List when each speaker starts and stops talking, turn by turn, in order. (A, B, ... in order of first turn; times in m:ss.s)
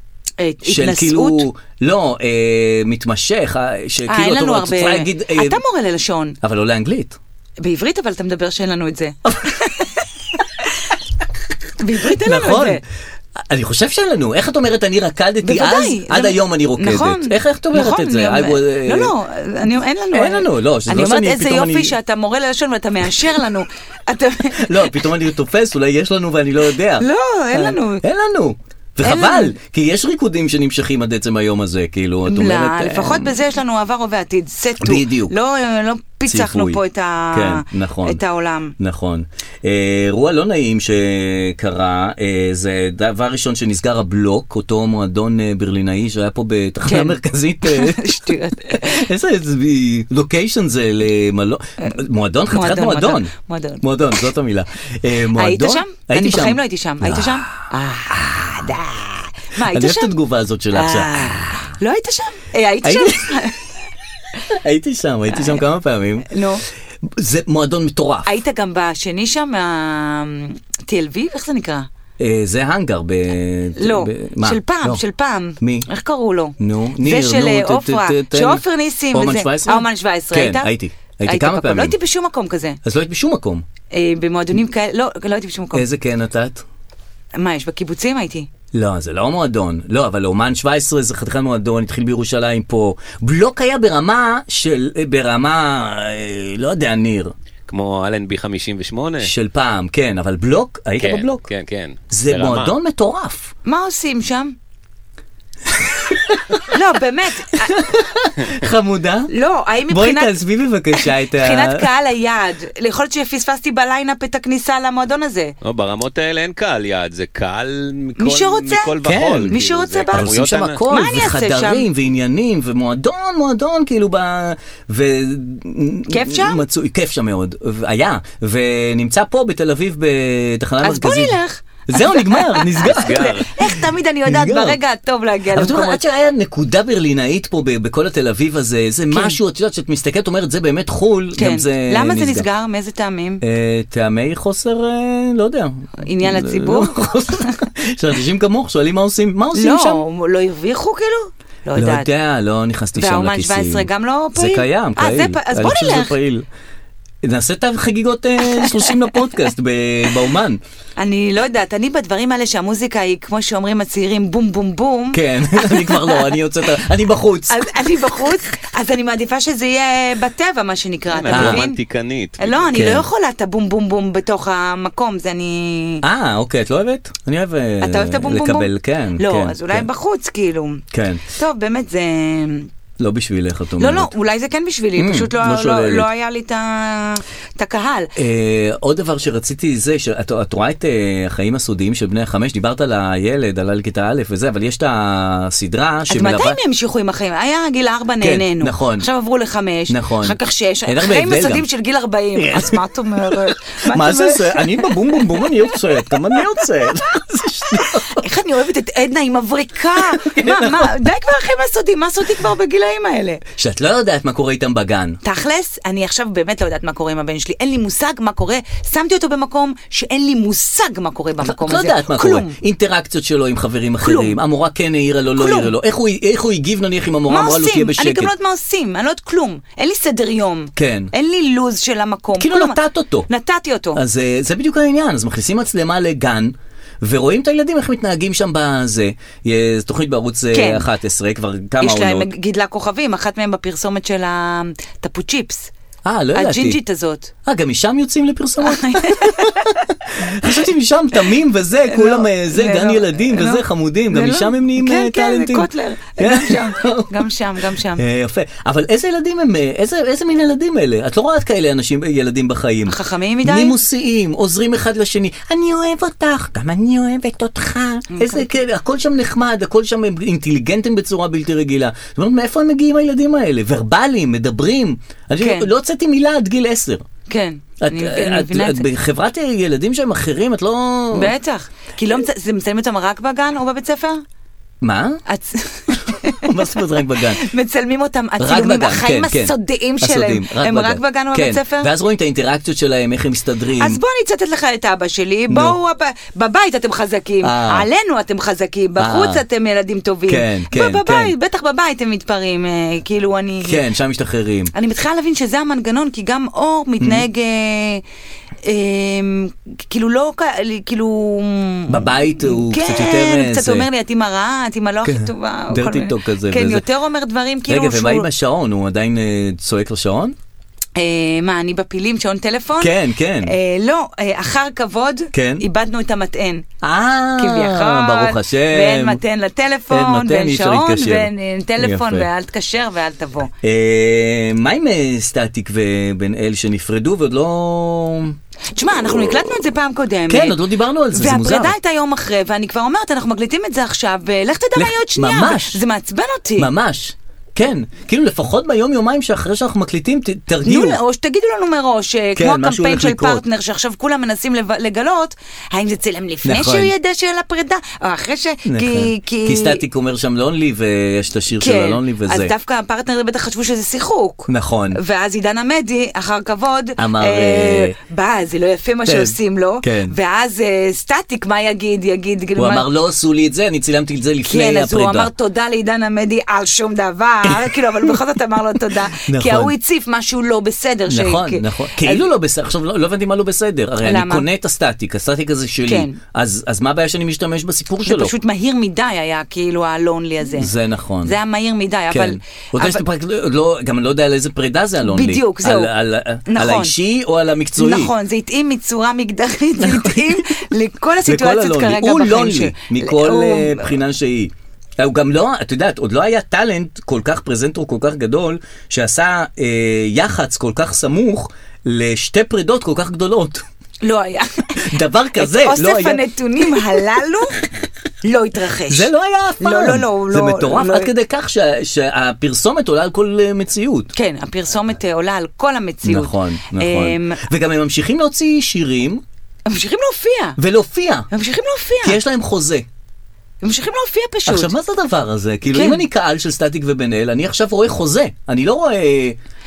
0:00.4-0:01.5 A
0:00.6-0:05.6 B
0:04.1-0:06.4 A
0:06.4-0:07.2 B
0:07.6-0:09.9 A
0:11.8-0:12.8 A
0:12.0-0:12.8 B
0:13.4-0:19.1 B
0:15.4-0:25.0 A
0:20.1-0:21.9 B
0:24.6-0:33.3 B
0:27.0-0:28.0 A
0:29.0-0:29.6 A
0:32.3-0:38.7 A
0:34.8-0:35.3 B
0:36.3-0:38.2 B
0:38.8-0:57.6 B
0:46.9-0:49.1 A
0:52.5-0:53.8 A
0:55.4-1:00.2 A
0:59.6-1:01.7 B
1:00.7-1:03.6 A
1:02.8-1:03.5 B
1:04.5-1:06.4 B
1:05.3-1:05.6 A
1:06.3-1:06.6 A
1:07.0-1:08.3 B
1:08.2-1:11.9 A
1:12.2-1:15.0 B
1:13.8-1:20.7 A
1:15.6-1:15.9 B
1:16.6-1:22.0 B
1:21.3-1:22.8 A
1:22.8-1:23.6 B
1:23.9-1:25.8 A
1:25.7-1:26.6 B
1:27.4-1:28.5 A
1:28.7-1:37.3 B
1:37.7-1:39.3 C
1:39.2-1:41.5 B
1:41.0-1:42.8 C
1:42.1-1:43.5 B
1:43.6-1:44.5 A
1:45.8-1:46.6 B
1:46.7-1:47.8 A
1:47.6-1:49.3 B
1:49.3-1:50.4 A
1:49.9-1:51.9 B
1:51.0-1:55.5 A
1:55.6-2:00.8 C
1:58.2-2:00.3 A
1:59.0-1:59.6 B
2:00.1-2:11.4 B
2:00.9-2:01.9 A
2:06.1-2:06.6 A
2:10.8-2:16.0 A
2:11.9-2:14.8 B
2:13.0-2:13.4 C
2:15.5-2:22.5 B
2:19.1-2:19.4 A
2:21.4-2:23.4 A
2:23.4-2:30.0 B
2:26.0-2:27.6 A
2:29.5-2:32.1 A
2:31.8-2:36.5 B
2:33.0-2:36.2 A
2:37.2-2:40.6 B
2:38.4-2:38.9 A
2:41.0-2:46.4 A
2:45.1-2:47.7 B
2:47.5-2:51.8 A
2:51.1-2:52.9 C
2:51.3-2:51.6 B
2:52.4-2:56.0 A
2:52.7-2:53.1 B
2:56.0-2:59.9 B
2:57.8-3:02.7 A
3:00.9-3:01.2 B
3:03.0-3:04.1 B
3:03.8-3:08.1 A
3:05.0-3:06.1 B
3:08.2-3:16.6 B
3:16.1-3:25.5 A
3:18.2-3:19.1 B
3:19.9-3:21.6 B
3:22.4-3:28.2 B
3:27.8-3:33.4 A
3:30.0-3:31.0 B
3:33.6-3:35.2 B
3:35.2-3:42.6 A
3:41.4-3:48.3 B
3:44.0-3:44.4 A
3:45.3-3:45.7 A
3:47.3-3:54.0 A
3:50.8-3:51.1 B
3:52.4-3:53.3 B
3:54.0-4:02.3 B
4:00.5-4:00.8 A
4:01.8-4:05.7 A
4:06.0-4:06.8 B
4:06.4-4:07.3 A
4:07.4-4:37.0 B
4:08.6-4:09.7 A
4:11.9-4:18.0 A
4:22.9-4:23.8 A
4:28.1-4:28.5 A
4:35.4-4:35.7 A
4:37.3-4:38.9 A
4:37.8-4:41.3 B
4:41.1-4:44.2 A
4:44.8-4:45.2 B
4:45.3-4:46.5 A
4:46.2-4:47.4 B
4:47.4-4:51.9 A
4:48.4-4:54.0 B
4:53.8-5:03.8 A
4:55.5-4:55.8 B
4:57.4-4:57.9 B
4:59.0-4:59.4 B
5:00.3-5:01.3 B
5:03.6-5:04.7 B
5:04.7-5:08.0 A
5:08.6-5:18.3 A
5:11.9-5:13.9 B
5:15.0-5:16.8 B
5:17.7-5:20.4 B
5:21.0-5:22.9 A
5:22.8-5:23.6 B
5:23.4-5:26.6 A
5:25.3-5:25.6 B
5:26.8-5:29.2 B
5:27.4-5:33.5 A
5:29.9-5:32.3 B
5:33.6-5:38.4 B
5:38.7-5:40.6 A
5:39.0-5:39.6 B
5:40.3-5:41.8 B
5:41.1-5:46.7 A
5:44.8-5:45.8 B
5:46.6-5:51.0 B
5:50.6-5:59.8 A
5:52.4-5:53.4 B
5:56.4-5:56.9 B
5:58.7-6:02.5 B
6:01.6-6:12.9 A
6:04.5-6:05.0 B
6:07.0-6:08.0 B
6:09.1-6:10.2 B
6:12.6-6:15.3 B
6:14.4-6:22.3 A
6:17.4-6:18.2 B
6:19.1-6:19.7 B
6:21.1-6:28.4 B
6:24.0-6:24.5 A
6:25.8-6:26.2 A
6:28.0-6:30.7 A
6:30.5-6:31.4 B
6:31.2-6:33.0 A
6:32.1-6:38.1 B
6:35.0-6:35.9 A
6:36.4-6:37.0 A
6:37.8-6:43.9 A
6:39.8-6:40.5 B
6:41.2-6:53.6 B
6:54.0-6:54.8 A
6:54.8-6:57.0 B
6:55.4-6:57.6 A
6:58.2-7:01.1 A
6:58.9-7:04.1 B
7:04.2-7:07.4 A
7:06.0-7:09.2 B
7:09.7-7:10.6 A
7:10.6-7:11.3 B
7:11.3-7:12.2 A
7:12.0-7:12.8 B
7:13.6-7:14.7 A
7:14.5-7:19.4 B
7:15.7-7:16.0 A